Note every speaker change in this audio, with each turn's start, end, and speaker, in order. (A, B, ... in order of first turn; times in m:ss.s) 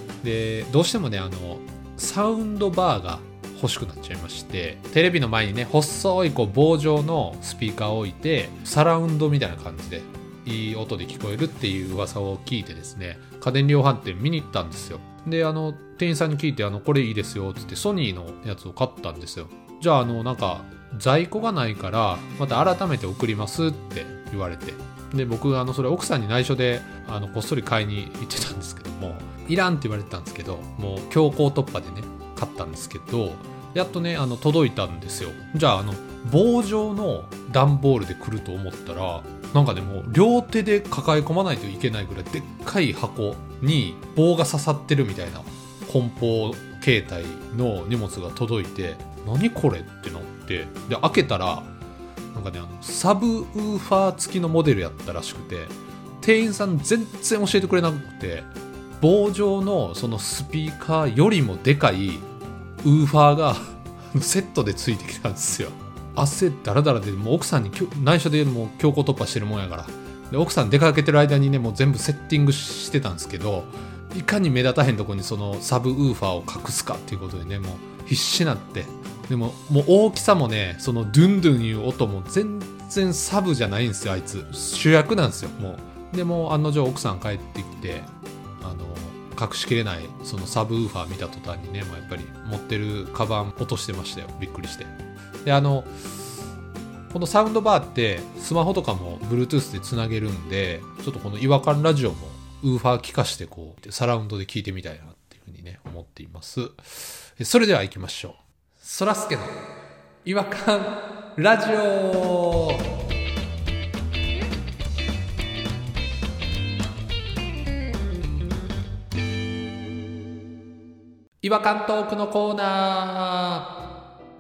0:00.2-0:51.7 A
0:52.3-0:58.5 A
0:59.0-1:02.2 A
1:02.8-1:28.1 A
1:28.6-1:34.9 A
1:35.4-1:35.9 A
1:37.1-1:49.6 A
1:50.2-1:52.9 A
2:01.4-2:03.7 A